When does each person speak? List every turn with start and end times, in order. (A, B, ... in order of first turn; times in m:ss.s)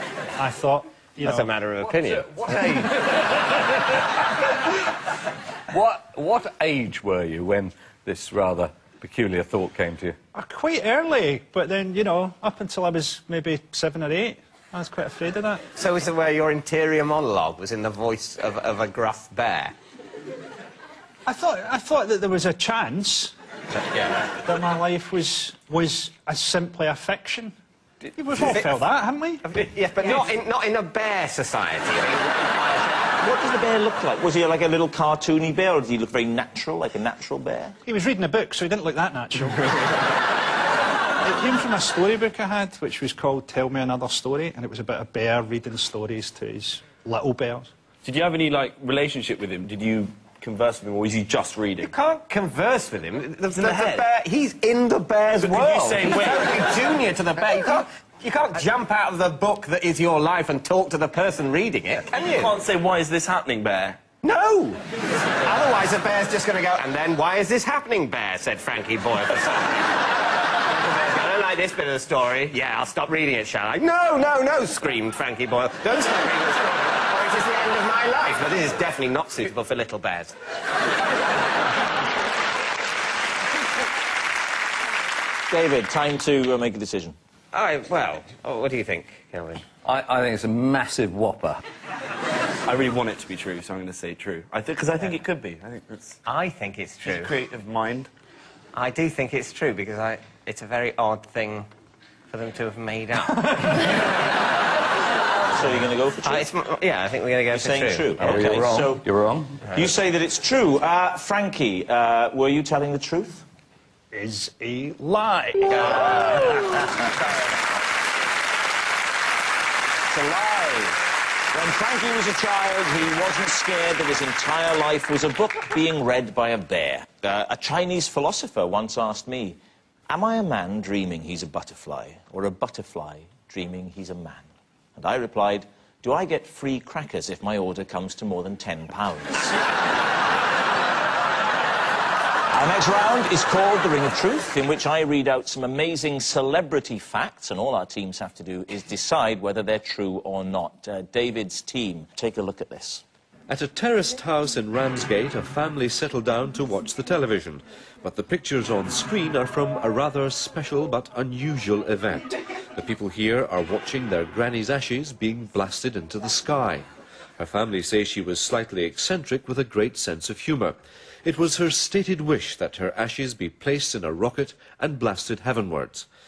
0:00.4-0:01.5 A
0:01.2-0:02.9 B
0:02.4-0:02.9 C
0:05.7-0:10.2 C
0:10.3-0:15.6 A
0:15.8-0:19.8 B
0:21.3-0:23.3 A
0:24.3-0:27.6 A
0:28.1-0:29.5 A
0:28.4-0:28.8 B
0:29.4-0:33.0 B
0:33.2-0:37.8 D
0:37.8-0:40.0 A
0:41.2-0:47.7 A
0:48.0-0:51.9 E
0:51.8-1:02.5 B
0:53.5-0:54.1 E
0:55.4-0:56.6 E
1:02.1-1:04.0 E
1:04.2-1:04.8 B
1:05.4-1:09.8 B
1:10.7-1:20.3 B
1:25.5-1:27.2 D
1:27.5-1:29.6 B
1:29.8-1:31.6 C
1:32.7-1:36.2 E
1:36.2-1:37.4 B
1:37.0-1:38.1 E
1:38.7-1:41.7 B
1:42.3-1:44.1 B
1:45.4-1:46.5 D
1:46.2-1:48.9 B
1:47.5-1:49.1 D
1:48.2-1:49.6 C
1:49.7-1:53.4 D
1:54.1-1:56.6 A
1:55.8-1:56.7 D
2:00.1-2:14.5 D
2:15.0-2:19.6 D
2:22.5-2:33.0 D
2:33.5-2:46.8 F
2:47.4-2:56.1 F